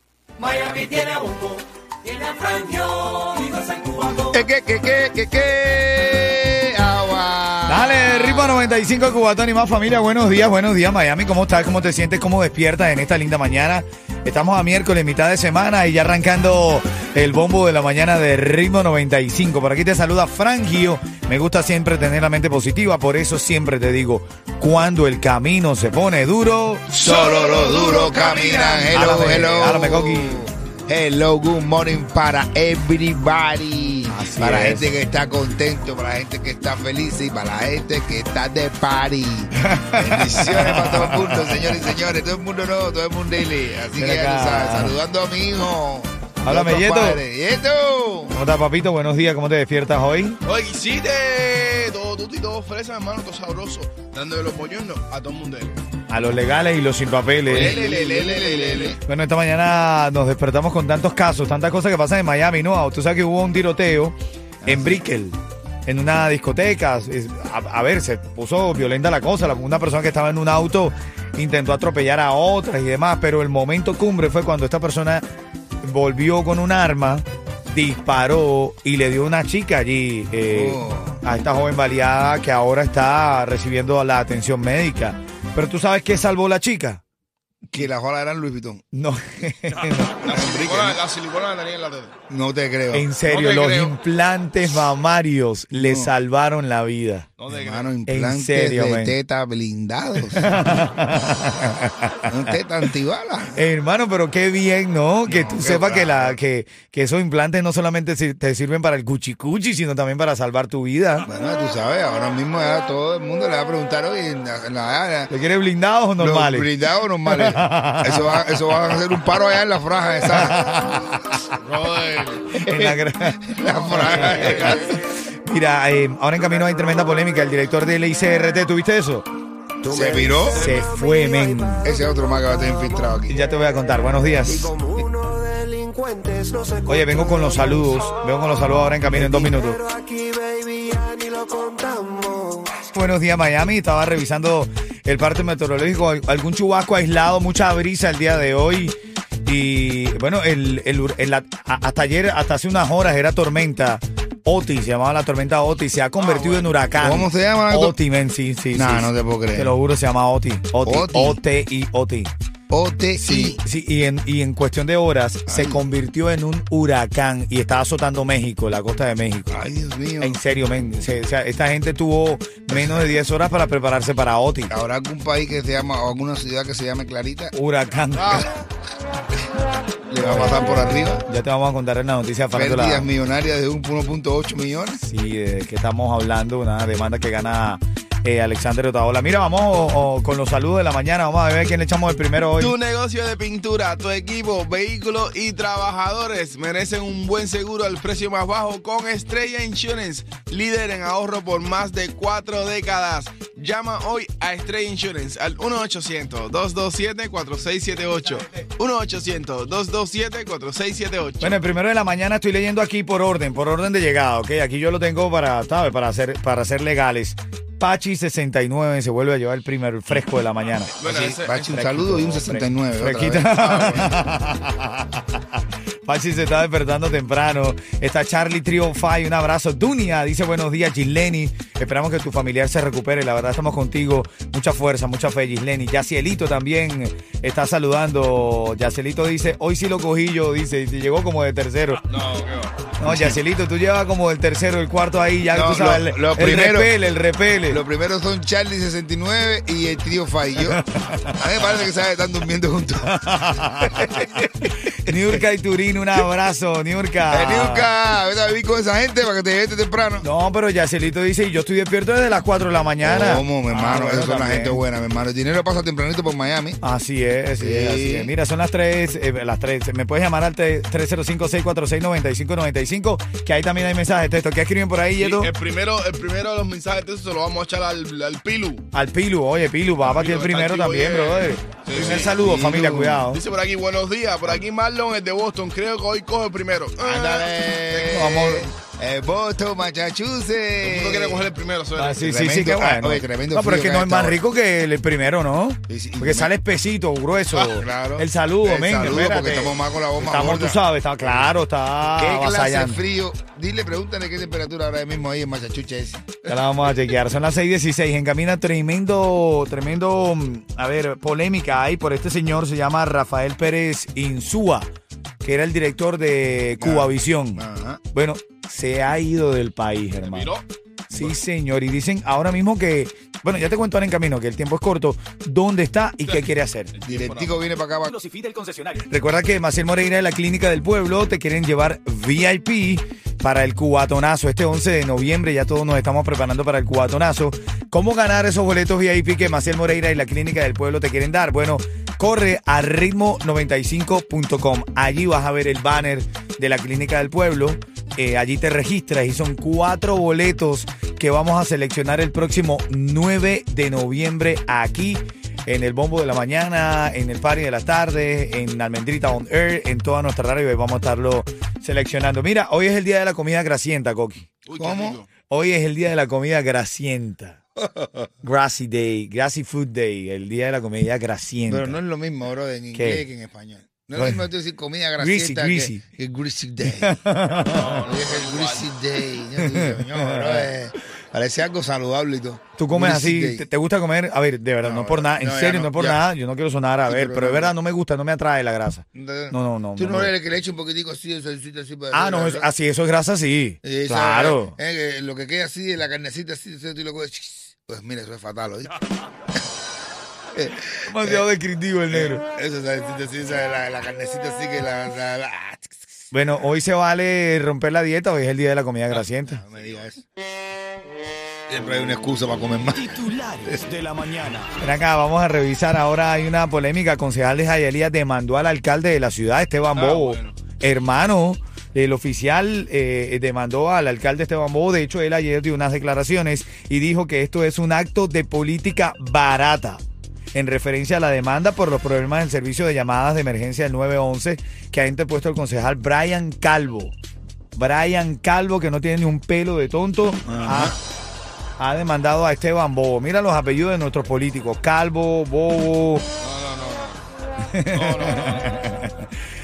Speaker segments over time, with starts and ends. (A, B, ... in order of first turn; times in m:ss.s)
0:00.4-0:04.3 A
0:04.3-0:08.6 B
0:07.7-0:27.0 C
0:26.9-0:48.3 B
0:27.0-0:28.8 D
0:28.8-0:30.4 C
0:34.1-0:35.0 C
0:39.6-0:41.8 C
0:44.0-0:44.9 C
0:46.4-0:47.2 C
0:48.3-0:50.4 C
0:50.4-0:55.8 D
0:56.1-0:57.8 C
0:57.4-0:59.0 D
0:57.5-0:58.9 B
0:59.0-1:04.1 C
1:04.6-1:05.0 B
1:04.6-1:15.2 C
1:15.8-1:27.0 C
1:20.5-1:21.2 B
1:27.7-1:28.8 B
1:28.9-1:30.2 C
1:30.2-1:32.1 D
1:30.3-1:31.0 B
1:32.3-1:33.1 B
1:32.9-1:37.3 C
1:33.3-1:33.9 D
1:35.7-1:36.1 B
1:37.4-1:37.9 D
1:37.5-1:40.4 B
1:38.1-1:39.1 C
1:40.3-1:42.5 C
1:42.3-1:43.6 B
1:43.5-1:51.3 C
1:45.3-1:46.4 B
1:51.3-1:55.3 B
1:55.3-1:56.7 C
1:56.2-2:00.6 B
1:57.2-1:58.4 C
2:00.3-2:01.5 C
2:01.6-2:02.4 D
2:02.6-2:09.2 C
2:02.6-2:04.9 B
2:04.0-2:04.8 D
2:09.9-2:10.7 B
2:10.4-2:11.9 C
2:11.1-2:11.9 E
2:11.8-2:13.3 B
2:13.3-2:14.8 C
2:15.0-2:16.8 E
2:16.8-2:19.8 C
2:19.9-2:22.5 E
2:22.8-2:28.9 C
2:29.4-2:42.3 C
2:36.2-2:36.9 D
2:37.0-2:37.9 B
2:38.8-2:39.6 B
2:40.8-2:41.3 B
2:42.7-2:43.6 B
2:43.2-2:49.6 C
2:45.5-2:45.8 B
2:49.5-2:50.3 B
2:50.2-2:54.7 C
2:54.7-2:57.5 B
2:57.5-2:58.5 C
2:58.2-2:58.4 D
3:00.1-3:01.2 B
3:00.2-3:03.1 C
3:02.5-3:05.0 B
3:05.0-3:12.7 C
3:12.6-3:31.6 D
3:31.4-3:40.9 C
3:40.9-3:41.7 D
3:41.0-3:44.1 B
3:41.6-4:02.0 C
3:43.6-3:44.1 D
4:02.1-4:02.8 D
4:03.0-4:07.8 C
4:05.5-4:06.9 B
4:07.7-4:10.8 B
4:10.6-4:11.3 C
4:11.4-4:13.1 B
4:13.2-4:17.9 C
4:17.3-4:20.2 B
4:20.2-4:24.8 C
4:23.0-4:26.8 B
4:26.8-4:35.5 C
4:27.6-4:28.3 B
4:35.2-4:38.8 D
4:38.9-4:43.4 C
4:40.0-4:42.4 D
4:42.0-4:43.2 B
4:43.3-4:48.2 D
4:47.0-4:51.4 B
4:48.0-4:48.7 C
4:50.8-4:52.3 D
4:51.9-5:03.0 C
4:52.3-4:54.4 B
4:55.9-4:56.5 B
4:57.5-5:01.4 B
5:02.2-5:06.4 B
5:06.4-5:14.9 C
5:15.4-5:20.5 C
5:16.8-5:18.0 B
5:20.2-5:20.6 D
5:21.1-5:26.9 C
5:26.2-5:27.6 D
5:27.0-5:28.1 B
5:28.0-6:04.5 C
6:04.6-6:05.3 D
6:04.8-6:05.2 B
6:05.5-6:07.6 C
6:07.8-6:08.2 B
6:08.4-6:12.0 C
6:11.7-6:17.1 B
6:12.9-6:13.2 C
6:14.2-6:14.4 C
6:15.2-6:16.0 C
6:17.0-6:18.0 C
6:17.6-6:18.9 D
6:18.1-6:23.6 B
6:19.6-6:20.7 C
6:22.8-6:30.3 C
6:24.8-6:26.2 B
6:27.1-6:27.7 B
6:29.1-6:32.7 B
6:32.1-6:34.7 C
6:33.8-6:38.9 B
6:40.6-6:41.4 B
6:41.1-6:42.4 C
6:42.1-6:46.0 B
6:46.3-6:49.6 C
6:49.5-6:50.2 B
6:51.7-6:53.0 B
6:52.9-7:10.0 C
7:00.0-7:00.5 D
7:10.5-7:17.1 C
7:17.8-7:21.0 C
7:20.5-7:20.9 B
7:21.8-7:26.2 C
7:26.4-7:27.2 D
7:27.6-7:29.3 C
7:27.9-7:28.7 D